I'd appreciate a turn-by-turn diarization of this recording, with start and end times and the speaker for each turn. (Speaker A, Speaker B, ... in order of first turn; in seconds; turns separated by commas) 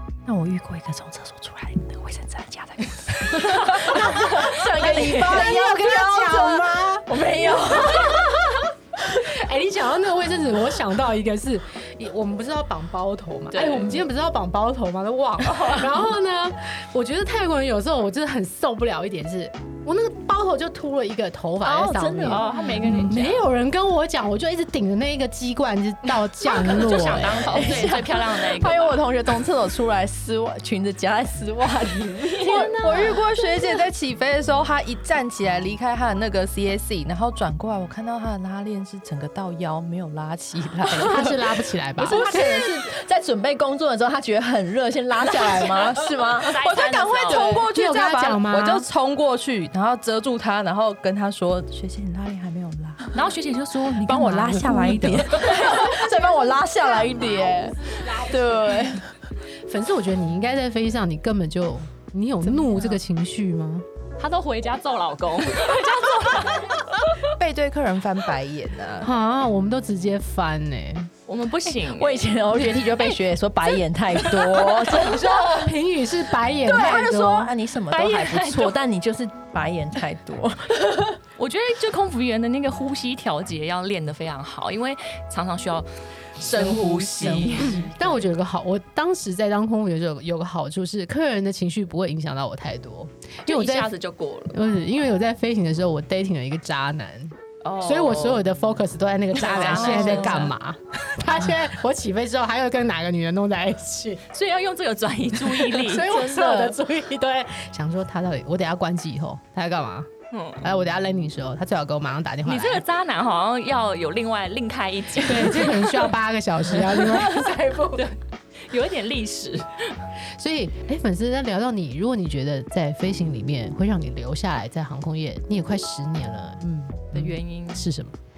Speaker A: 0.3-8.4, Speaker B: 3.5-27.9, Speaker C: 13.5-14.0, Speaker C: 15.5-15.8, Speaker A: 21.6-23.0, Speaker C: 22.2-23.4, Speaker C: 26.6-29.1, Speaker A: 27.1-29.8, Speaker D: 29.3-30.9, Speaker A: 30.4-33.2, Speaker C: 32.2-33.2, Speaker D: 32.4-41.4, Speaker B: 40.9-42.6, Speaker A: 42.0-47.7, Speaker C: 45.6-47.6, Speaker D: 46.8-53.1, Speaker B: 47.7-48.9, Speaker C: 53.1-55.8, Speaker A: 53.9-59.1, Speaker B: 54.9-55.2, Speaker B: 57.2-58.6, Speaker B: 59.7-63.9, Speaker C: 64.2-67.1, Speaker D: 67.2-69.1, Speaker B: 69.0-71.1, Speaker C: 71.3-72.4, Speaker A: 71.9-75.7, Speaker C: 74.2-75.4, Speaker B: 75.0-77.5, Speaker A: 76.7-81.2, Speaker C: 77.9-78.8, Speaker C: 81.4-87.8, Speaker A: 86.5-88.2, Speaker B: 87.6-93.9, Speaker C: 93.5-94.6, Speaker B: 94.5-104.2, Speaker C: 97.6-98.4, Speaker C: 99.4-100.5, Speaker A: 99.4-100.4, Speaker C: 104.3-106.2, Speaker B: 105.3-110.1, Speaker A: 106.1-106.5, Speaker D: 106.1-106.8, Speaker C: 110.3-110.7, Speaker B: 110.6-112.8, Speaker C: 112.5-116.0, Speaker B: 115.2-118.1, Speaker C: 116.7-120.0, Speaker B: 120.3-128.2, Speaker C: 127.1-127.9